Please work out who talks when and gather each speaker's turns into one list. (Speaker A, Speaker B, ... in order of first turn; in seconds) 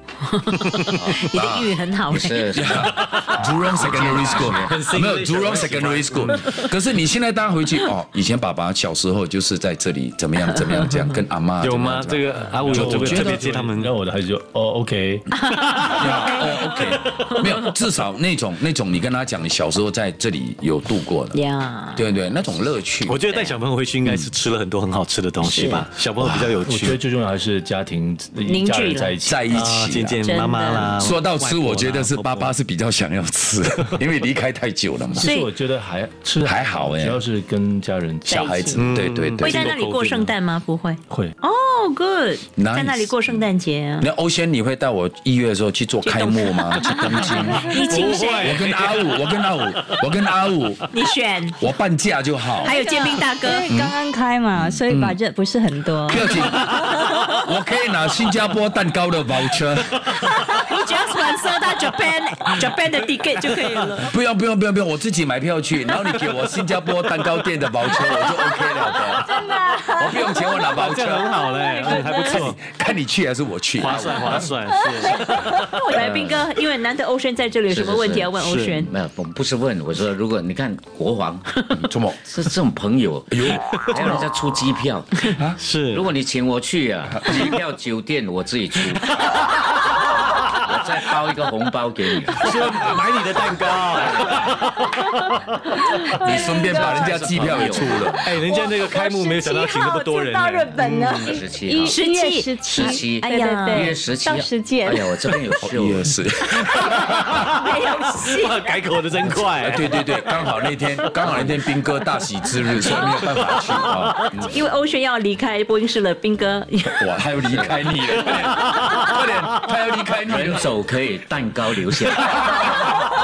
Speaker A: 0.3-2.7, 10.4-11.2, 21.3-22.1, 23.3-23.6, 25.4-25.9, 28.4-29.2, 30.2-31.0, 35.1-35.5, 38.2-38.8, 39.4-44.1, 46.0-48.6, 50.9-51.6, 52.6-53.7, 60.3-64.1, 71.6-72.5, 75.5-78.9, 98.5-101.0, 101.9-103.9, 106.8-108.7, 114.4-117.2
Speaker B: 0.9-1.3, 2.1-4.9, 76.0-76.5, 77.7-89.2, 90.0-93.0, 93.9-94.5, 96.7-98.4, 100.8-102.0, 102.7-106.2, 120.2-123.0
Speaker C: 1.3-1.8, 2.5-13.5, 15.8-21.4, 21.9-23.2, 24.1-24.3, 26.2-26.6, 29.2-30.2, 31.0-35.3, 36.4-37.2, 38.3-39.7, 42.6-43.4, 44.0-50.9, 51.6-52.8, 53.7-53.9, 54.6-55.2, 56.0-60.1, 64.0-71.4, 72.1-74.5, 81.8-82.2, 83.3-84.3, 87.1-87.6, 96.2-98.3, 105.6-107.3, 109.5-114.3, 116.9-120.7
Speaker D: 3.0-3.5, 4.1-6.6, 11.6-13.9, 15.6-16.9, 23.1-27.0, 29.5-32.5, 38.8-40.4, 47.8-50.0, 70.7-72.6, 73.8-75.8, 78.4-78.8, 83.6-84.0, 85.6-86.1, 92.4-96.3, 97.6-101.3, 107.3-107.6, 108.3-110.0
Speaker E: 12.7-15.3, 26.6-29.5, 35.1-38.5, 41.1-41.3
Speaker F: 47.6-48.2, 52.6-56.7, 68.5-70.8, 71.3-72.0, 74.7-75.1, 96.3-97.1, 98.5-105.4